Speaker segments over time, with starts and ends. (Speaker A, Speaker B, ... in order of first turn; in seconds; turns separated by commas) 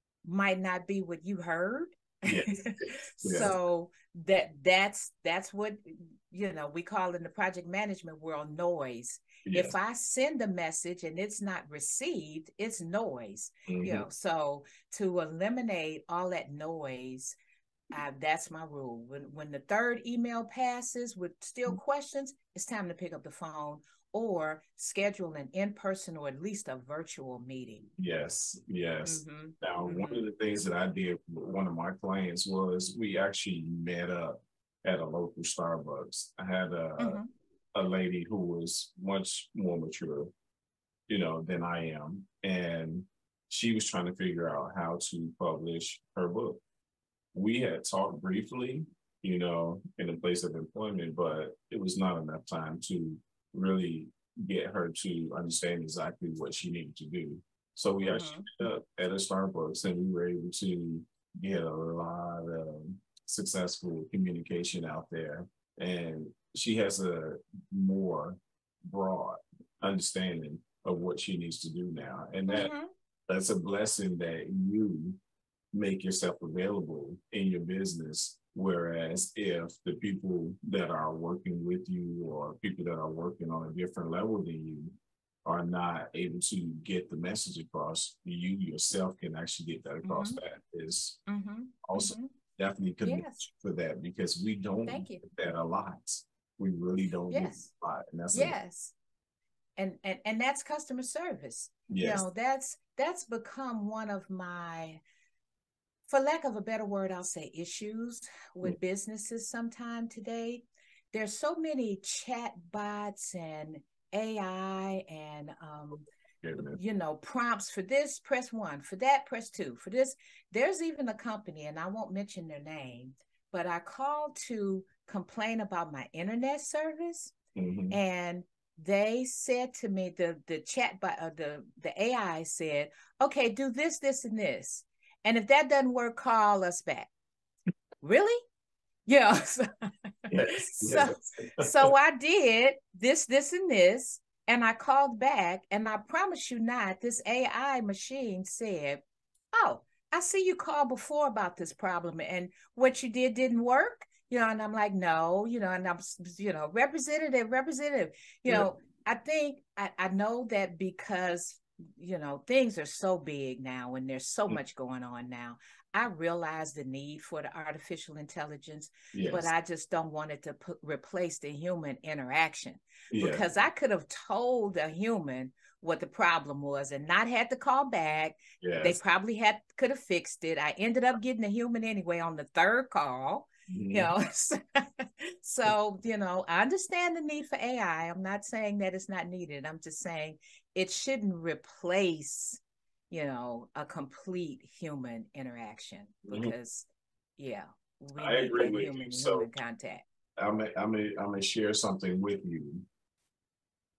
Speaker A: 0.2-17.3, Speaker B: 2.2-3.5, Speaker B: 9.4-9.7, Speaker B: 13.7-14.1, Speaker A: 17.9-27.9, Speaker B: 28.0-37.2, Speaker A: 29.1-30.3, Speaker A: 37.0-37.3, Speaker B: 37.7-40.3, Speaker B: 41.1-46.6, Speaker B: 47.3-72.7, Speaker A: 58.0-58.5, Speaker A: 72.5-72.9, Speaker B: 73.3-75.2, Speaker B: 75.7-91.2, Speaker A: 90.0-90.4, Speaker A: 91.3-92.3, Speaker B: 91.8-98.6, Speaker A: 93.0-93.5, Speaker A: 94.9-95.2, Speaker A: 97.3-97.7, Speaker A: 98.3-99.0, Speaker A: 99.8-105.0, Speaker B: 101.9-102.3, Speaker A: 106.1-116.0, Speaker B: 116.4-116.8, Speaker A: 116.6-127.3, Speaker B: 127.5-128.0, Speaker A: 127.9-137.1, Speaker A: 138.0-138.4, Speaker A: 139.1-139.7, Speaker B: 140.3-141.9, Speaker A: 140.5-149.0, Speaker A: 149.6-192.6, Speaker B: 169.1-169.5, Speaker B: 173.1-173.5, Speaker B: 178.6-179.0, Speaker B: 183.7-184.1, Speaker A: 193.1-200.0, Speaker B: 196.3-196.5, Speaker B: 198.2-199.5, Speaker B: 200.4-202.9